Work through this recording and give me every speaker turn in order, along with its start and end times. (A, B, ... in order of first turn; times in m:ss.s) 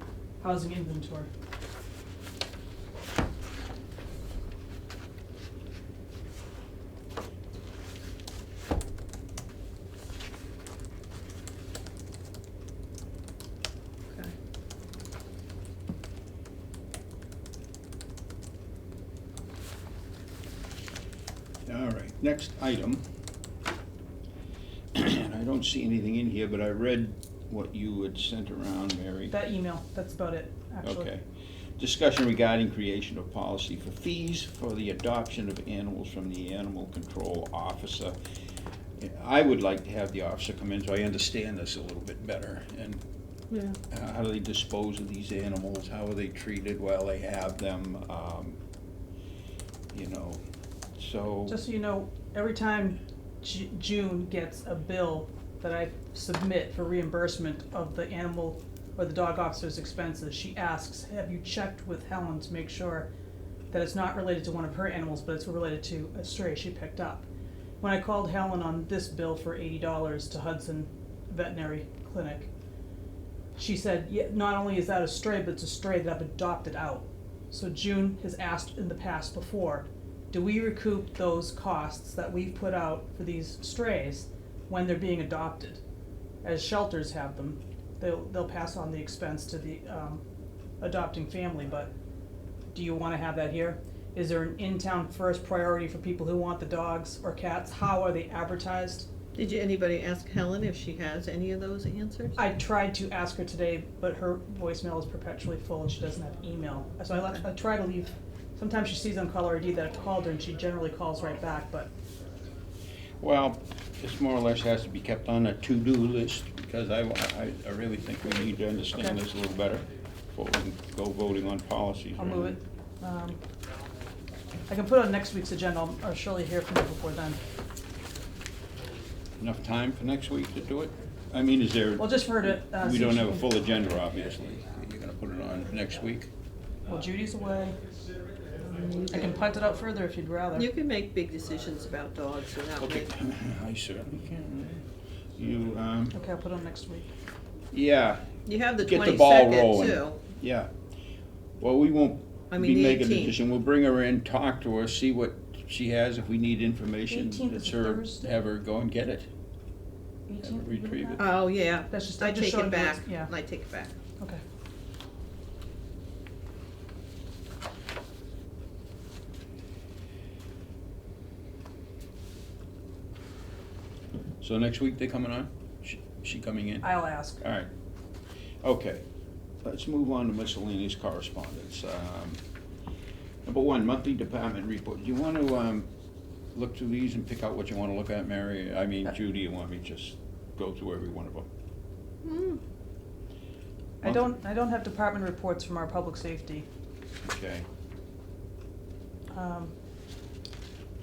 0:00.4-0:01.3 A
0:21.6-0:23.0 B
0:24.9-0:29.3 B
0:29.3-0:31.1 A
0:30.8-0:31.2 B
0:31.8-0:38.2 B
0:39.0-0:43.0 B
0:43.5-0:43.8 C
0:43.9-0:48.6 B
0:49.9-0:50.4 B
0:51.0-0:51.6 B
0:51.5-1:03.1 A
1:03.7-1:07.3 A
1:07.8-1:12.5 A
1:13.6-1:25.8 A
1:26.4-1:30.2 A
1:30.8-1:31.9 A
1:32.7-1:39.1 A
1:39.3-1:42.4 C
1:42.4-1:51.9 A
1:53.2-2:02.6 B
2:02.2-2:03.4 A
2:04.7-2:07.4 A
2:09.4-2:16.3 B
2:12.0-2:13.5 A
2:16.8-2:17.8 A
2:18.6-2:19.3 C
2:19.1-2:20.7 A
2:20.5-2:23.1 C
2:22.8-2:24.8 B
2:25.4-2:26.2 B
2:26.1-2:27.1 A
2:27.7-2:30.7 B
2:28.4-2:30.2 C
2:31.6-2:39.3 B
2:32.5-2:33.4 C
2:37.1-2:38.3 A
2:40.3-2:41.2 A
2:40.4-2:41.2 B
2:41.2-2:44.0 C
2:41.9-2:43.3 A
2:54.4-2:56.9 B
2:56.8-2:57.4 A
2:57.4-2:57.7 B
2:58.6-2:59.0 B
2:59.6-3:02.4 B
3:03.4-3:05.9 B
3:06.5-3:11.5 B
3:12.2-3:12.6 C
3:14.0-3:16.7 A
3:17.2-3:17.6 B
3:19.3-3:19.7 A